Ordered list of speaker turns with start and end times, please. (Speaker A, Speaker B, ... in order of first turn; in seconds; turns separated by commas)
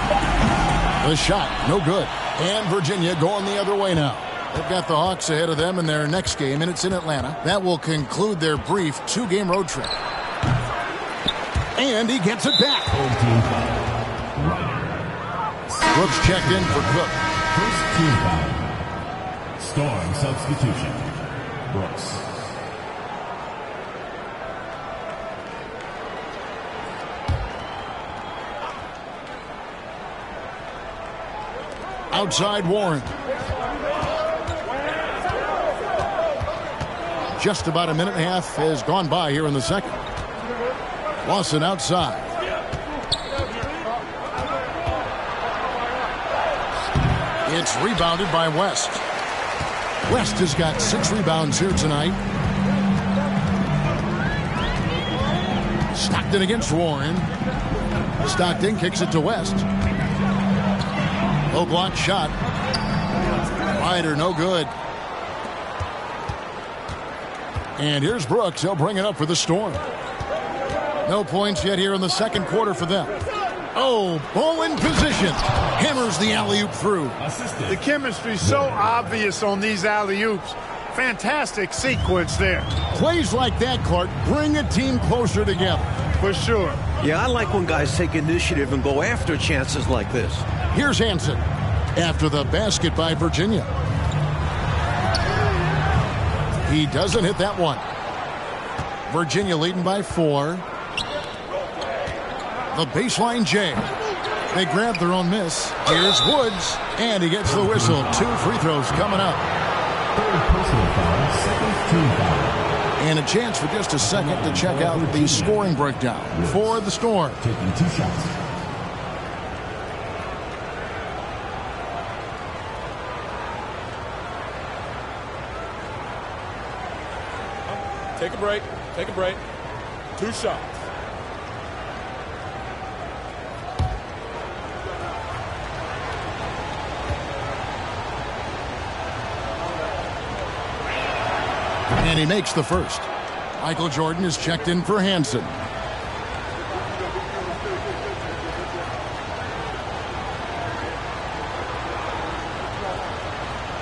Speaker A: 1.0-10.0, Speaker A: 11.8-12.9, Speaker B: 12.9-15.1, Speaker B: 15.7-18.8, Speaker A: 15.9-17.2, Speaker B: 19.6-22.5, Speaker A: 32.1-33.2, Speaker A: 37.4-40.0, Speaker A: 41.2-42.3, Speaker A: 47.4-49.0, Speaker A: 50.0-52.2, Speaker A: 55.9-57.3, Speaker A: 58.2-59.7, Speaker A: 61.5-62.4, Speaker A: 63.7-64.7, Speaker A: 67.8-69.8, Speaker A: 71.0-73.2, Speaker A: 73.7-77.2, Speaker B: 77.2-77.8, Speaker C: 77.7-82.7, Speaker B: 78.4-78.8, Speaker A: 82.9-85.9, Speaker C: 86.2-86.8, Speaker D: 87.0-90.5, Speaker A: 90.7-93.7, Speaker A: 96.6-97.8, Speaker A: 99.1-100.6, Speaker A: 102.7-103.9, Speaker A: 104.5-109.4, Speaker B: 107.5-108.3, Speaker B: 110.1-112.8, Speaker A: 113.0-117.4, Speaker B: 114.0-115.5, Speaker B: 116.3-116.8, Speaker B: 117.4-118.3, Speaker E: 127.7-129.4, Speaker E: 130.2-130.9, Speaker A: 142.0-145.6